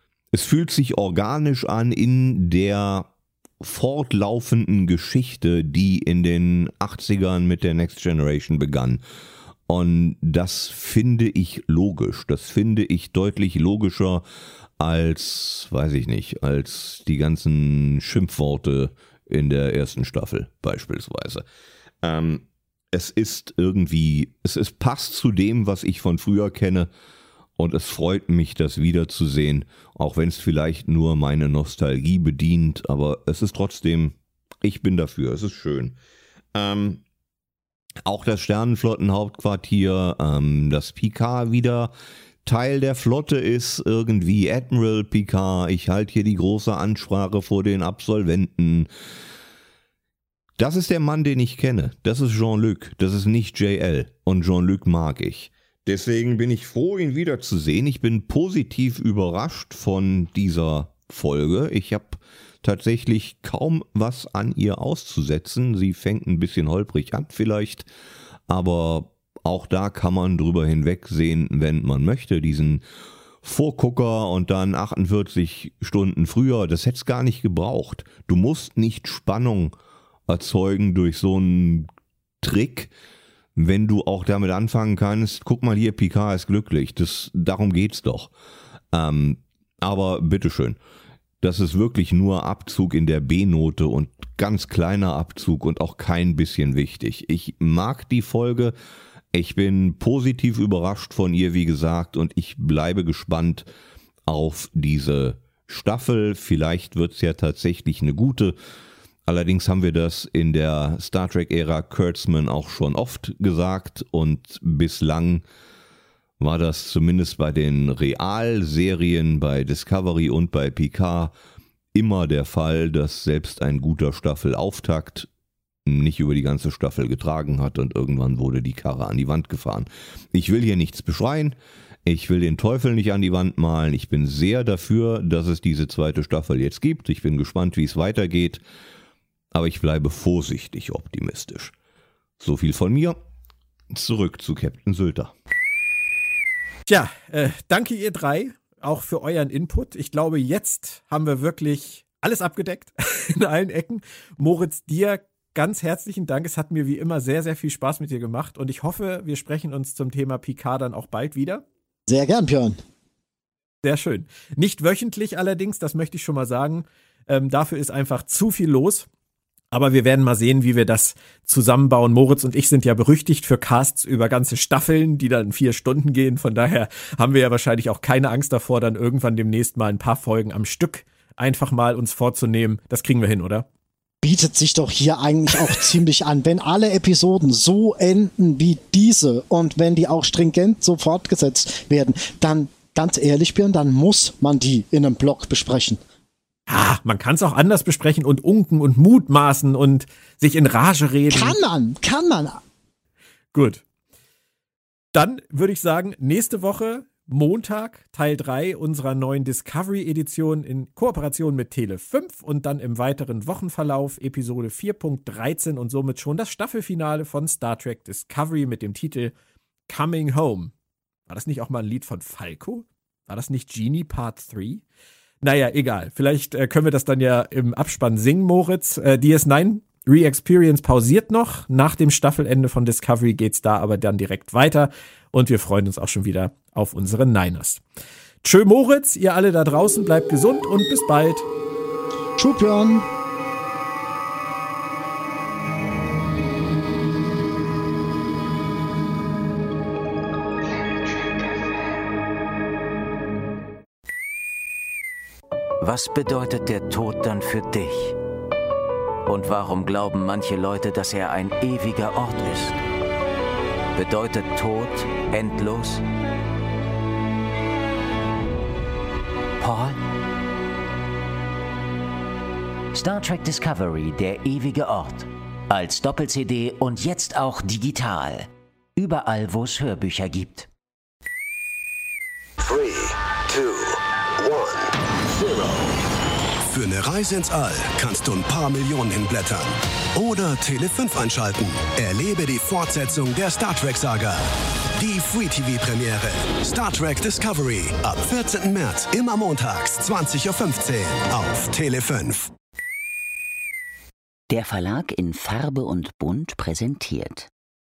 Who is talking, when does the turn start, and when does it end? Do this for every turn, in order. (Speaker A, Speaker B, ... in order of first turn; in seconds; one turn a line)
Speaker A: 0.3-3.1
Speaker A: 3.6-9.0
Speaker A: 9.7-14.2
Speaker A: 14.8-21.4
Speaker A: 22.0-26.9
Speaker A: 27.6-36.0
Speaker A: 36.5-37.0
Speaker A: 38.0-41.9
Speaker A: 42.5-48.9
Speaker A: 50.6-67.9
Speaker A: 68.5-72.8
Speaker A: 73.4-79.7
Speaker A: 80.3-81.9
Speaker A: 82.4-82.9
Speaker A: 83.5-88.3
Speaker A: 88.9-90.8
Speaker A: 91.4-98.7
Speaker A: 99.3-103.7
Speaker A: 104.2-108.5
Speaker A: 109.3-115.4
Speaker A: 116.4-121.3
Speaker A: 121.9-125.3
Speaker A: 125.8-138.6
Speaker A: 139.5-141.7
Speaker A: 142.4-143.2
Speaker A: 143.9-145.3
Speaker B: 146.9-161.6
Speaker C: 162.1-162.8
Speaker B: 163.8-169.1
Speaker B: 169.7-183.7
Speaker C: 184.2-196.0
Speaker B: 196.7-201.6
Speaker C: 201.3-202.6
Speaker B: 203.5-203.8
Speaker B: 205.1-219.3
Speaker B: 219.9-220.7
Speaker B: 221.3-224.8
Speaker B: 225.4-237.8
Speaker B: 238.4-241.5
Speaker C: 242.4-243.1
Speaker D: 255.8-258.2
Speaker D: 259.2-262.8
Speaker D: 263.9-266.0
Speaker D: 269.6-270.0
Speaker D: 272.9-280.7
Speaker D: 282.6-285.9
Speaker E: 286.7-294.4
Speaker E: 294.9-302.5
Speaker D: 304.5-307.5